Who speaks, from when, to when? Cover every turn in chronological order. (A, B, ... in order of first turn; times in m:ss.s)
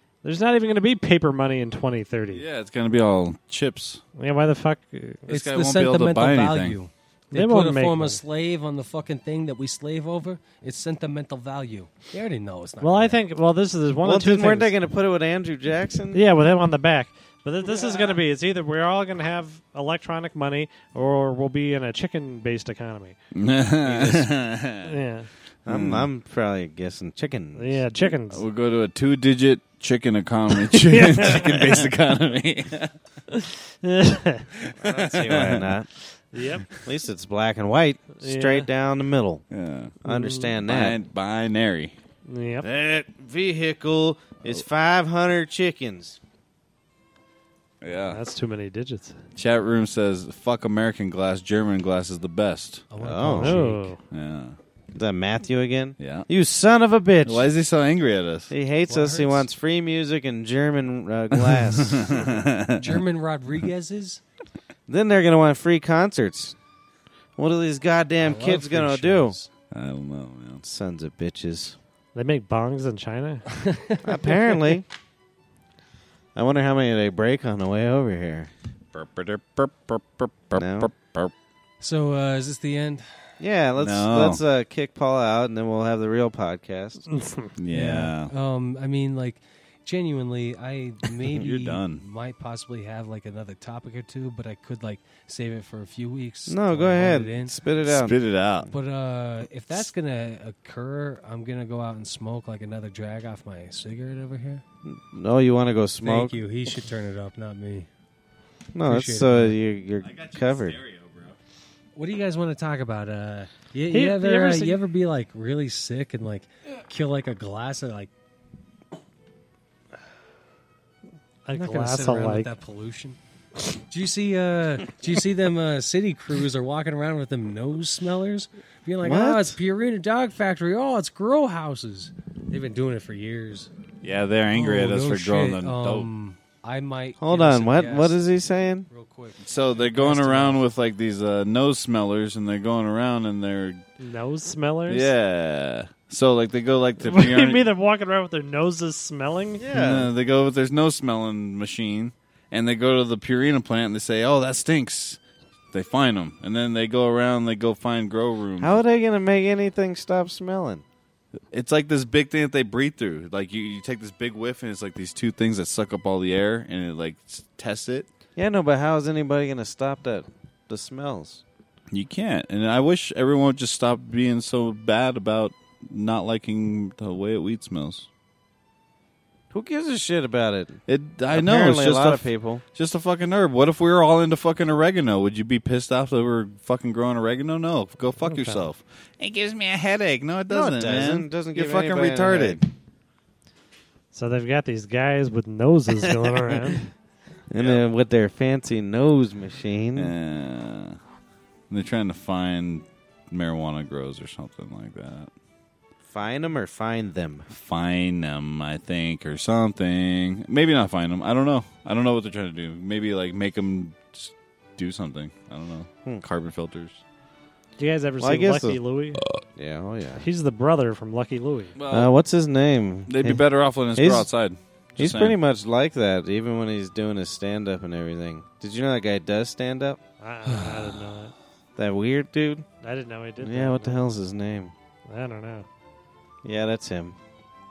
0:00.2-0:02.4 A
0:02.3-0:04.0 B
0:04.2-0:05.2 A
0:05.3-0:13.2 C
0:05.3-0:06.8 B
0:07.3-0:08.2 A
0:12.8-0:14.7 A
0:14.0-0:16.2 D
0:16.1-0:23.2 A
0:23.3-0:24.9 B
0:23.8-0:24.3 D
0:24.8-0:25.3 A
0:25.6-0:27.8 D
0:25.7-0:26.0 B
0:27.6-0:28.4 A
0:28.3-0:32.9 B
0:30.7-0:31.9 A
0:33.3-0:34.5 A
0:34.6-0:35.6 B
0:34.8-0:35.9 D
0:36.3-0:36.7 A
0:36.8-0:39.4 D
0:38.2-0:38.6 A
0:39.5-0:40.0 B
0:40.0-0:41.0 D
0:40.1-0:40.5 A
0:40.6-0:42.0 B
0:42.3-0:42.7 A
0:42.6-0:46.2 D
0:47.8-0:48.2 B
0:48.1-0:49.2 A
0:49.4-0:52.8 B
0:52.9-0:53.9 C
0:53.0-0:53.6 D
0:53.3-0:54.0 A
0:54.1-0:54.6 B
0:54.9-0:57.5 D
0:56.0-0:56.3 B
0:57.2-0:58.5 B
0:58.5-1:02.2 D
0:58.9-0:59.5 C
1:01.5-1:03.0 B
1:02.8-1:04.2 C
1:04.9-1:06.6 D
1:07.4-1:09.4 D
1:08.2-1:09.5 C
1:09.7-1:10.6 B
1:10.6-1:11.8 D
1:12.1-1:13.6 A
1:13.5-1:14.5 C
1:14.0-1:14.8 D
1:16.3-1:18.5 D
1:18.9-1:21.3 B
1:20.5-1:20.9 D
1:21.8-1:23.4 C
1:23.4-1:27.0 D
1:23.8-1:24.4 B
1:27.2-1:27.5 A
1:27.6-1:28.3 B
1:27.7-1:37.5 C
1:31.2-1:32.0 B
1:36.5-1:38.2 D
1:37.8-1:38.7 B
1:38.7-1:44.6 C
1:44.8-1:46.3 D
1:46.0-1:47.9 C
1:48.7-1:50.8 D
1:48.8-1:49.6 C
1:50.0-1:51.4 B
1:51.9-1:58.1 C
1:53.9-1:54.8 A
2:01.4-2:02.5 A
2:01.5-2:03.2 C
2:03.8-2:13.7 C
2:09.0-2:09.6 D
2:14.0-2:16.1 B
2:14.5-2:18.3 C
2:17.2-2:18.9 D
2:18.9-2:20.6 C
2:19.4-2:23.8 B
2:24.0-2:25.1 A
2:24.9-2:27.6 B
2:27.0-2:29.6 A
2:29.6-2:30.1 D
2:29.7-2:35.2 B
2:35.7-2:38.8 B
2:38.6-2:40.8 D
2:41.5-2:48.1 B
2:48.4-2:51.4 D
2:51.9-2:58.1 B
2:59.5-3:02.6 D
3:00.9-3:12.6 B
3:08.2-3:08.7 A
3:10.5-3:12.6 D
3:14.1-3:16.9 A
3:15.9-3:16.7 D
3:17.5-3:20.1 D
3:17.5-3:17.8 B
3:20.0-3:21.0 B
3:21.7-3:25.3 B
3:26.1-3:27.5 D
3:27.5-3:37.0 B
3:37.8-3:39.2 A
3:38.2-3:38.8 D
3:39.6-3:40.2 D
3:40.2-3:41.7 A
3:41.7-3:42.1 B
3:41.9-3:44.3 D
3:43.1-3:45.3 B
3:45.0-3:50.0 D
3:50.2-3:51.3 A
3:51.8-3:52.6 D
3:52.8-3:54.0 A
3:53.4-3:54.7 D
3:55.1-3:55.6 A
3:56.4-3:57.2 D